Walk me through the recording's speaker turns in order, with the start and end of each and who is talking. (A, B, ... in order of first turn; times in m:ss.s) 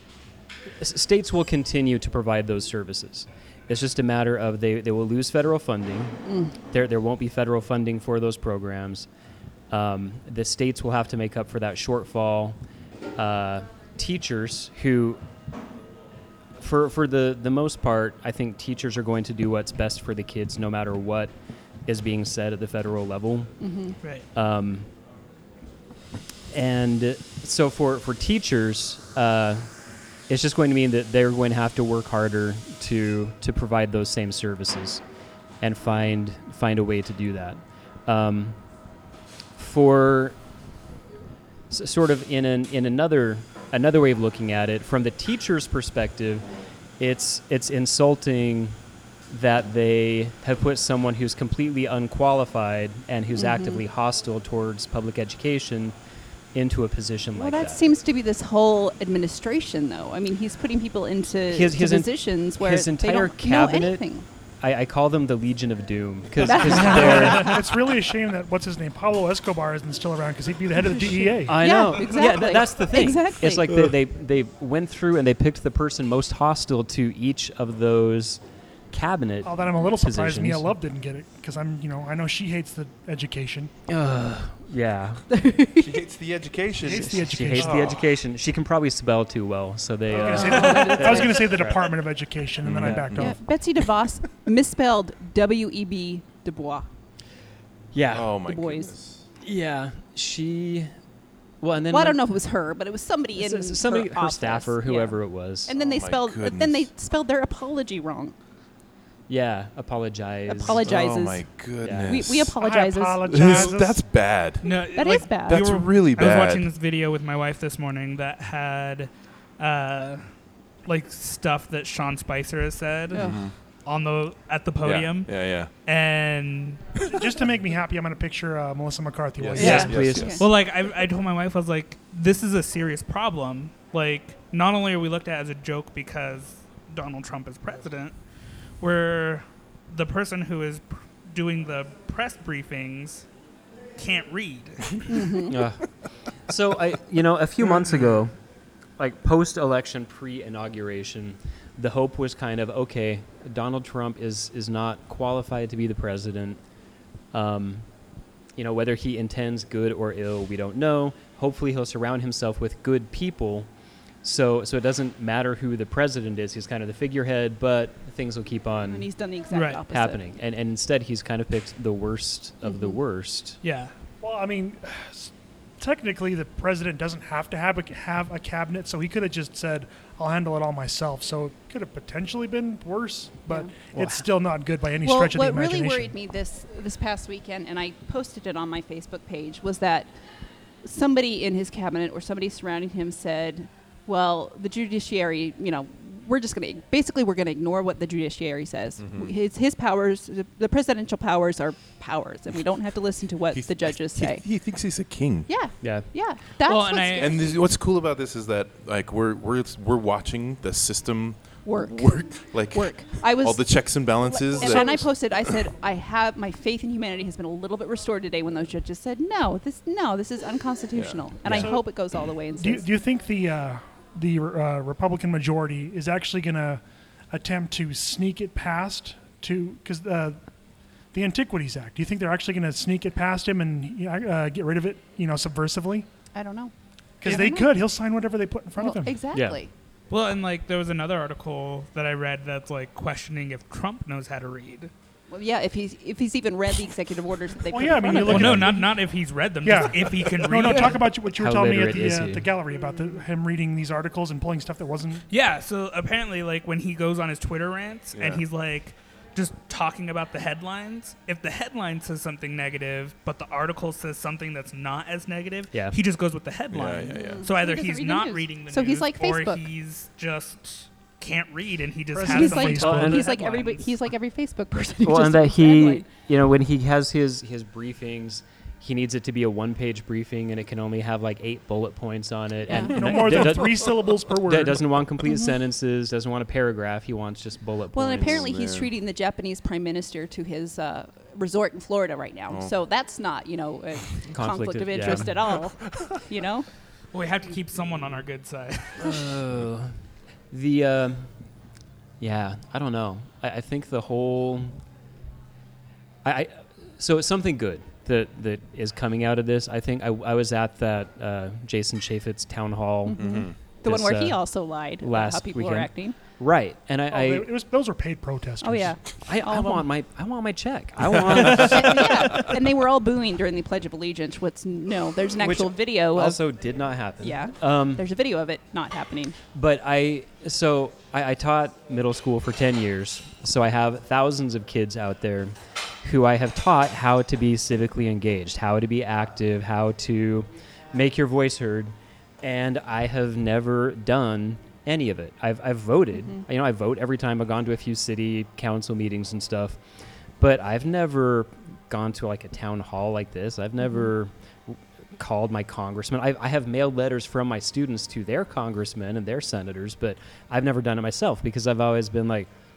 0:00.8-0:06.2 A
0:06.2-0:06.5 B
0:06.7-0:09.1 A
0:09.7-0:12.6 A
0:13.2-0:15.2 A
0:16.6-0:21.3 A
0:21.8-0:23.6 A
0:23.6-0:24.0 B
0:24.3-0:24.9 A
0:26.5-0:29.7 A
0:30.3-0:35.0 A
0:35.6-0:38.6 A
0:39.6-0:40.4 A
0:41.7-0:46.4 A
0:47.0-0:48.8 A
0:49.3-0:55.9 A
0:53.3-0:53.8 B
0:56.5-0:57.8 A
0:57.4-1:04.2 B
1:01.5-1:04.0 A
1:04.6-1:07.6 A
1:06.4-1:07.6 B
1:06.7-1:11.8 C
1:11.4-1:18.4 A
1:11.5-1:13.8 B
1:18.9-1:20.7 A
1:19.4-1:23.7 C
1:23.9-1:25.2 A
1:25.3-1:25.8 B
1:25.8-1:28.1 D
1:26.8-1:27.9 C
1:26.9-1:31.8 A
1:30.1-1:33.4 C
1:30.3-1:31.5 B
1:32.6-1:33.3 D
1:32.7-1:33.3 A
1:33.2-1:36.9 B
1:37.9-1:38.3 A
1:38.1-1:39.2 D
1:38.4-1:38.9 B
1:39.4-1:40.9 A
1:41.6-1:42.2 A
1:41.9-1:48.3 B
1:43.4-1:45.7 A
1:45.8-1:46.9 D
1:49.3-1:50.9 A
1:50.5-1:53.7 B
1:50.8-1:52.6 D
1:51.8-1:52.2 A
1:52.6-1:54.0 C
1:53.2-1:56.7 D
1:54.6-2:00.3 E
1:54.7-1:55.8 B
2:00.8-2:03.2 E
2:03.1-2:03.4 B
2:03.1-2:03.5 D
2:03.8-2:06.8 E
2:04.8-2:05.7 D
2:07.1-2:09.9 C
2:09.4-2:10.4 D
2:09.6-2:10.5 B
2:09.6-2:10.4 A
2:10.4-2:18.1 E
2:18.8-2:23.3 E
2:24.0-2:25.2 E
2:25.1-2:25.6 B
2:25.5-2:25.8 A
2:26.5-2:28.3 A
2:29.0-2:36.6 A
2:37.3-2:37.9 A
2:38.6-2:43.7 A
2:44.2-2:49.0 A
2:48.8-2:50.2 B
2:49.5-2:49.8 E
2:49.9-2:53.6 A
2:52.6-2:53.0 B
2:53.6-2:53.9 E
2:54.2-3:06.1 C
3:03.9-3:04.3 A
3:05.0-3:10.1 B
3:10.8-3:24.4 B
3:19.0-3:19.3 D
3:23.5-3:25.5 D
3:25.5-3:27.6 B
3:25.8-3:26.1 A
3:26.6-3:27.4 E
3:27.1-3:35.5 D
3:31.6-3:42.8 B
3:40.9-3:41.5 D
3:41.4-3:41.7 A
3:41.6-3:41.9 C
3:42.6-3:50.4 C
3:51.1-3:56.1 C
3:56.3-3:57.7 B
3:57.2-3:59.2 C
3:58.8-3:59.7 B
3:59.3-3:59.6 A
4:00.1-4:04.9 E
4:05.3-4:08.8 B
4:07.7-4:08.9 C
4:08.1-4:11.0 E
4:09.6-4:15.2 C
4:11.3-4:12.5 A
4:15.3-4:33.9 E
4:18.1-4:18.4 D
4:25.7-4:26.0 A
4:26.7-4:27.5 D
4:27.1-4:29.6 B
4:32.1-4:33.2 C
4:32.2-4:36.1 B
4:32.8-4:33.2 A
4:35.0-4:48.5 A
4:42.7-4:43.5 B
4:42.8-4:45.0 C
4:45.2-4:45.5 B
4:47.9-4:56.7 B
4:48.1-4:48.9 D
4:54.3-4:55.3 A
4:55.1-4:56.3 D
4:57.1-4:59.3 E
4:59.0-5:00.0 A
5:00.5-5:01.3 A
5:02.2-5:04.8 A
5:06.2-5:13.2 A
5:13.1-5:16.2 B
5:13.1-5:13.6 D
5:13.8-5:17.5 A
5:17.1-5:19.0 C
5:18.6-5:19.9 B
5:19.2-5:22.1 A
5:21.4-5:26.4 B
5:25.4-5:28.0 A
5:27.2-5:29.4 B
5:29.5-5:49.8 A
5:50.4-6:02.5 A